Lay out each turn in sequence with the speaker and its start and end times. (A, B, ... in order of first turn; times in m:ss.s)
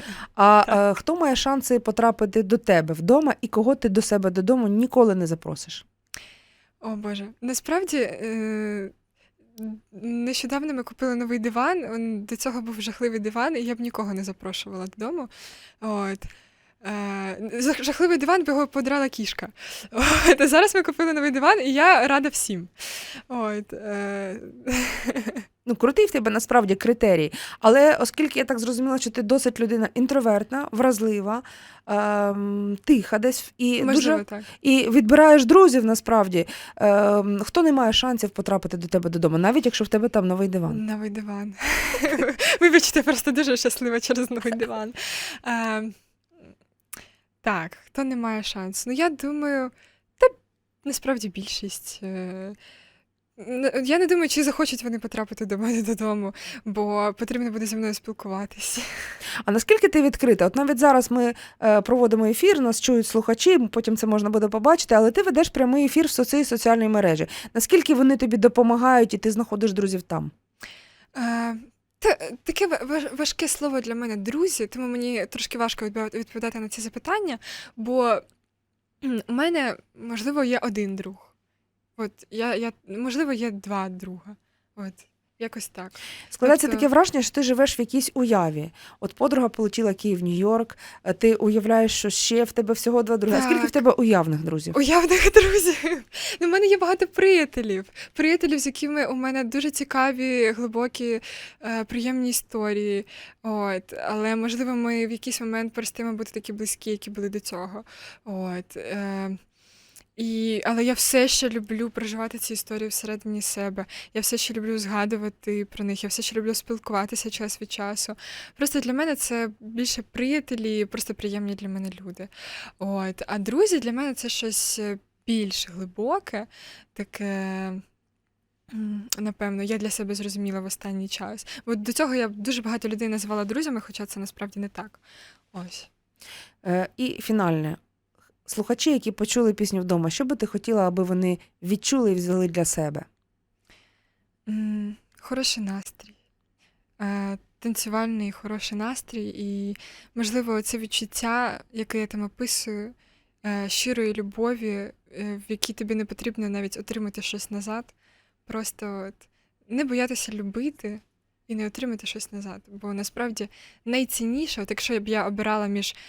0:00.4-0:05.8 A
0:06.8-0:08.9 B
0:09.6-0:15.3 B
0:15.8-0:16.3 B
0:16.8-0:25.4 B
0:25.7-0:40.8 A
0:33.8-0:34.5 B
0:40.7-0:46.0 B
0:47.4-0:52.6 B
0:53.4-0:59.1 B
0:59.4-1:10.3 A
1:11.2-1:18.2 B
1:19.0-1:21.3 B
1:22.0-1:26.9 B
1:26.3-1:34.8 A
1:33.3-1:33.8 B
1:34.7-1:49.4 B
1:50.2-2:07.8 B
2:08.7-2:15.9 B
2:16.6-2:17.8 A
2:18.5-2:23.1 A
2:24.5-2:26.2 B
2:27.0-2:37.9 B
2:38.5-2:46.0 B